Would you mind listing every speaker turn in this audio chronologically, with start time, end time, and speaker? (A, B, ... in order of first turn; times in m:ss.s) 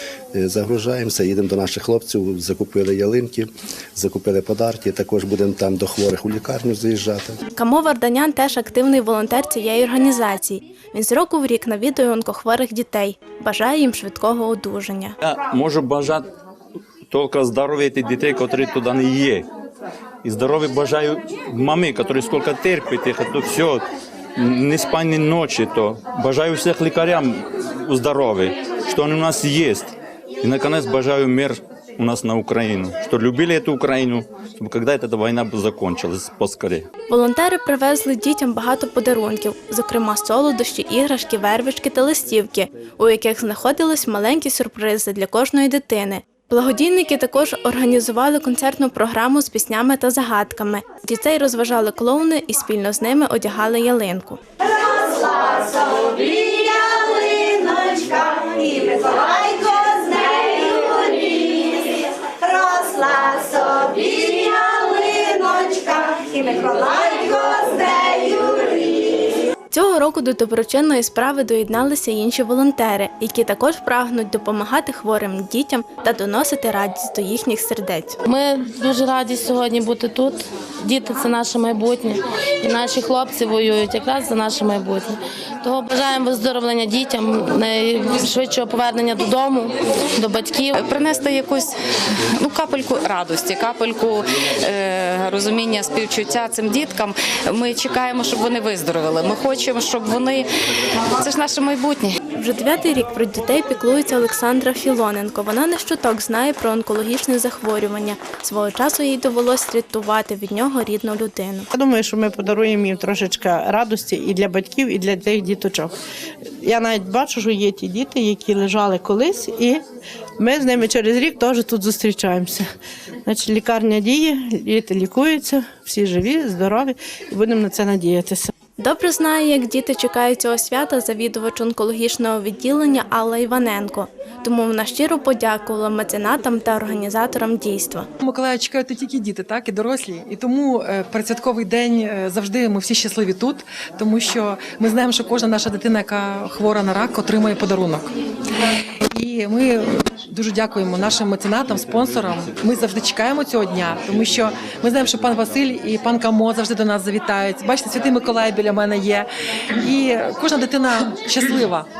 0:00.3-0:07.4 A
0:07.5-0:15.2 B
0:15.2-0:16.3 C
0:17.1-0:19.5 C
0:20.2-0:23.8 C
0:24.4-0:36.9 C
0:37.1-0:54.4 B
0:54.9-1:01.1 D
1:02.4-1:08.6 D
1:09.7-1:18.2 B
1:18.2-1:30.8 E
1:30.8-1:31.7 F
1:32.4-1:40.5 F
1:41.2-1:42.2 F
1:42.4-1:51.7 B
1:51.7-1:55.9 G
1:56.6-1:59.8 G
2:00.4-2:02.6 G
2:03.2-2:08.5 G
2:08.8-2:18.1 B
2:18.2-2:28.1 H
2:29.1-2:39.3 H
2:39.8-2:41.8 H